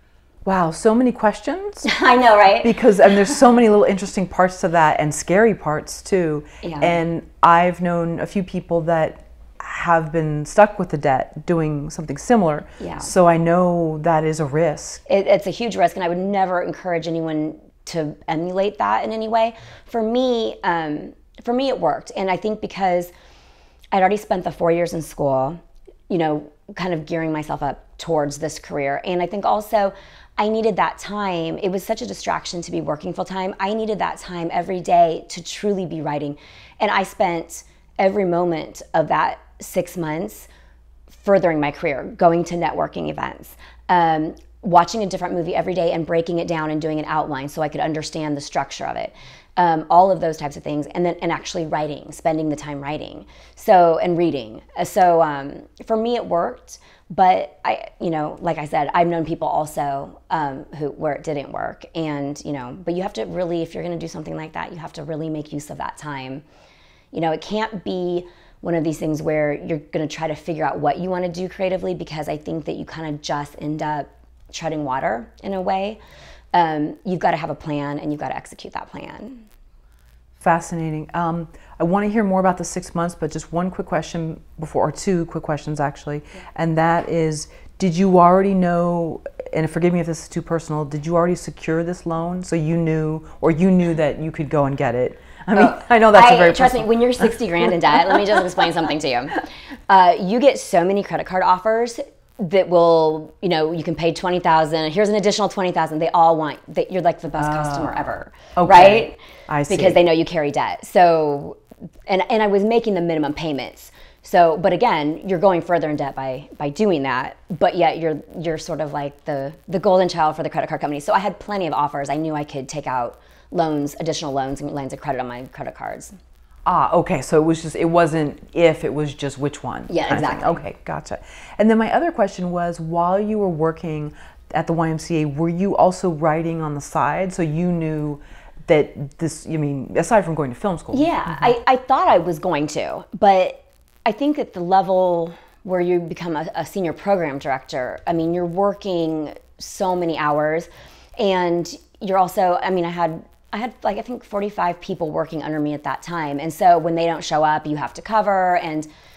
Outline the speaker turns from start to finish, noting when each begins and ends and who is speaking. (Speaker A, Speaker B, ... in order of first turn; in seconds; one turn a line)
Speaker A: 0.4-1.9
Speaker B: 1.8-2.7
Speaker A: 2.6-15.0
Speaker B: 6.6-7.0
Speaker B: 12.8-13.1
Speaker B: 15.1-23.1
Speaker B: 23.9-25.6
Speaker B: 26.1-40.5
Speaker B: 41.1-66.4
Speaker B: 67.1-76.0
Speaker B: 76.5-79.5
Speaker A: 80.4-97.3
Speaker B: 95.5-126.2
Speaker A: 107.4-108.0
Speaker A: 108.5-110.0
Speaker A: 126.7-141.5
Speaker B: 129.9-130.6
Speaker B: 140.9-158.9